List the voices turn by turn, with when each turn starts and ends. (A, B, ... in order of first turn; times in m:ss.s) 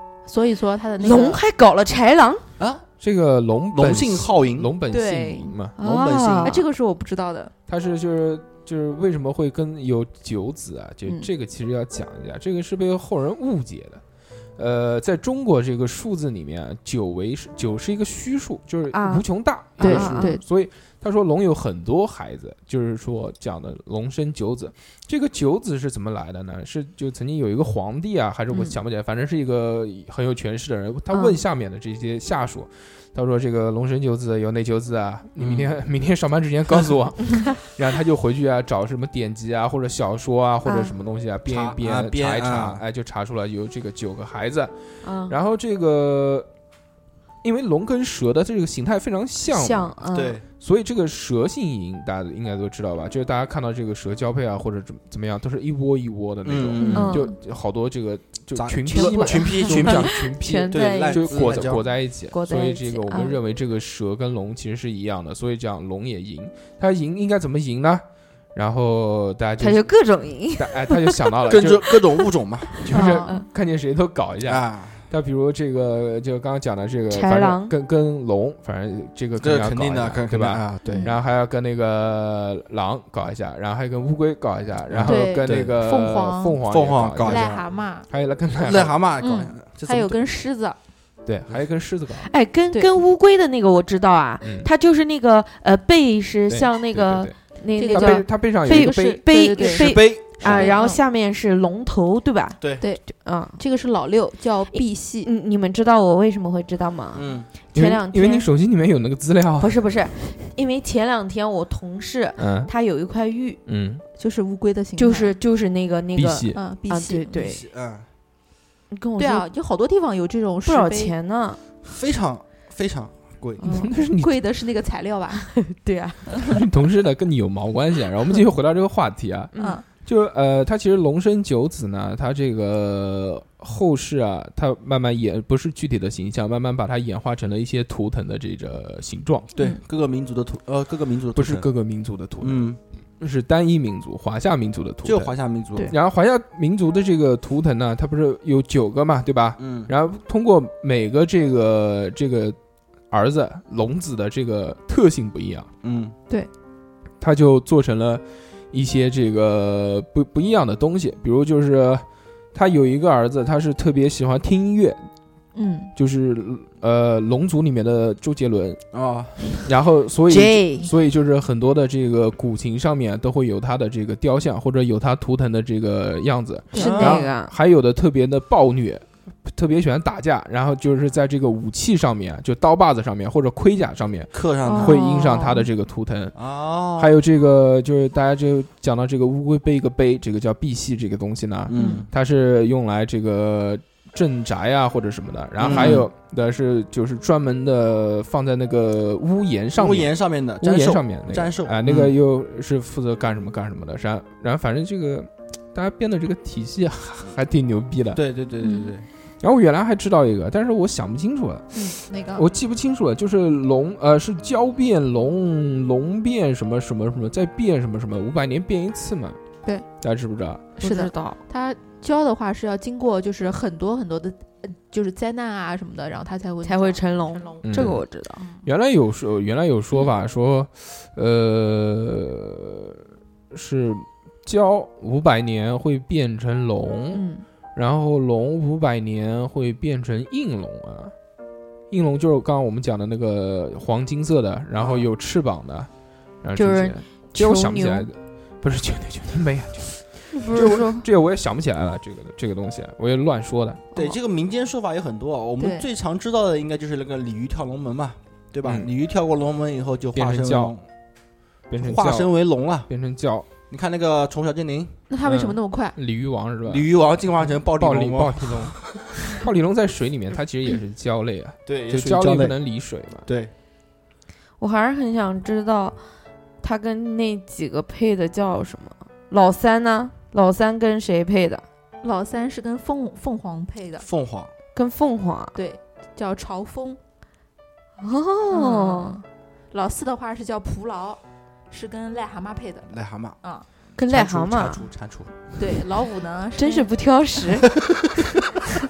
0:00.3-0:01.4 A
0:01.0-0:02.4 B
0:02.6-0:02.8 C
0:03.0-0:05.8 D
0:03.7-0:04.7 C
0:04.9-0:05.5 A
0:05.8-0:06.6 B
0:05.8-0:06.6 C
0:06.4-0:07.5 A
0:07.7-0:14.0 D
0:14.6-0:44.7 D
0:18.9-0:19.3 B
0:19.8-0:20.4 B
0:19.8-0:20.4 A
0:31.1-0:31.4 B
0:35.4-0:35.8 C
0:40.6-0:40.9 B
0:41.5-0:42.8 C
0:45.0-0:45.4 B
0:45.3-0:46.5 D
0:47.4-0:50.0 D
0:49.5-0:50.4 B
0:50.1-0:50.4 C
0:50.6-1:09.9 D
0:56.4-0:57.2 C
0:56.8-0:57.3 A
0:56.9-0:57.3 B
0:58.6-1:01.8 C
0:58.9-1:03.4 B
1:09.6-1:11.1 B
1:10.6-1:12.0 D
1:11.5-1:12.9 C
1:12.8-1:27.6 D
1:12.9-1:13.4 B
1:12.9-1:13.4 A
1:14.4-1:15.1 C
1:17.1-1:17.7 B
1:19.4-1:21.1 C
1:20.9-1:21.1 A
1:24.9-1:25.8 C
1:25.0-1:26.6 A
1:26.7-1:27.6 C
1:27.2-1:28.1 A
1:28.1-1:29.0 D
1:28.6-1:30.2 C
1:29.2-1:30.8 A
1:31.3-1:32.3 D
1:32.2-1:43.6 B
1:34.4-1:34.7 D
1:36.5-1:37.4 D
1:37.8-1:41.0 A
1:37.9-1:39.2 D
1:39.6-1:40.7 C
1:42.8-1:45.3 A
1:44.7-1:48.5 B
1:47.1-1:47.5 C
1:47.7-1:50.0 D
1:49.6-1:53.6 B
1:52.4-1:52.7 D
1:53.7-1:54.0 D
1:54.2-1:55.3 A
1:55.0-1:57.6 B
1:56.2-1:56.6 D
1:56.5-1:57.5 A
1:57.4-1:58.1 C
1:58.9-1:59.5 B
1:59.2-2:01.1 A
2:00.6-2:01.6 B
2:01.8-2:03.9 C
2:03.6-2:03.9 B
2:03.7-2:04.4 D
2:04.2-2:05.5 A
2:05.3-2:06.5 B
2:06.5-2:19.5 D
2:09.5-2:09.8 B
2:09.6-2:09.8 A
2:19.6-2:21.7 C
2:21.4-2:22.7 D
2:22.4-2:22.8 C
2:23.2-2:25.4 D
2:25.0-2:25.9 C
2:25.9-2:32.6 D
2:29.6-2:29.9 C
2:33.1-2:35.7 D
2:35.8-2:36.2 C
2:37.2-2:45.1 D
2:45.6-2:45.9 A
2:46.0-2:48.8 D
2:48.9-2:49.7 C
2:49.6-3:06.4 D
2:50.3-2:50.9 B
2:56.7-2:57.3 A
2:56.7-2:57.5 B
2:56.8-2:57.2 C
3:04.3-3:05.0 C
3:04.7-3:05.7 B
3:06.4-3:07.1 C
3:07.0-3:28.2 D
3:11.7-3:12.1 C
3:15.6-3:16.1 C
3:19.8-3:22.1 C
3:28.1-3:29.1 C
3:28.6-3:28.9 A
3:29.4-3:39.4 D
3:31.8-3:32.5 A
3:40.0-3:40.6 D
3:40.8-3:41.4 B
3:40.8-3:47.7 A
3:46.6-3:48.5 B
3:47.6-3:48.1 D
3:48.6-3:57.2 D
3:57.1-3:57.4 B
3:57.8-4:01.1 D
4:01.9-4:05.9 D
4:04.8-4:05.1 C
4:06.4-4:13.8 D
4:06.6-4:08.1 B
4:10.4-4:11.0 B
4:13.9-4:20.8 C
4:15.6-4:15.9 A
4:20.2-4:20.7 D
4:21.7-4:22.3 D
4:21.8-4:22.9 C
4:22.8-4:23.5 D
4:23.7-4:25.0 C
4:25.1-4:26.0 A
4:25.2-4:26.9 D
4:26.7-4:29.0 C
4:27.8-4:33.3 D
4:31.7-4:32.6 C
4:33.3-4:33.5 C
4:34.6-4:36.0 B
4:36.6-4:41.6 B
4:42.0-4:44.1 A
4:44.0-4:44.5 C
4:44.8-4:45.6 B
4:45.6-4:47.0 A
4:48.0-4:49.2 B
4:48.5-4:53.7 A
4:52.9-4:53.4 C
4:54.0-4:54.8 B
4:54.1-4:55.4 C
4:55.6-4:56.9 A
4:56.6-4:57.7 B
4:57.8-4:58.2 C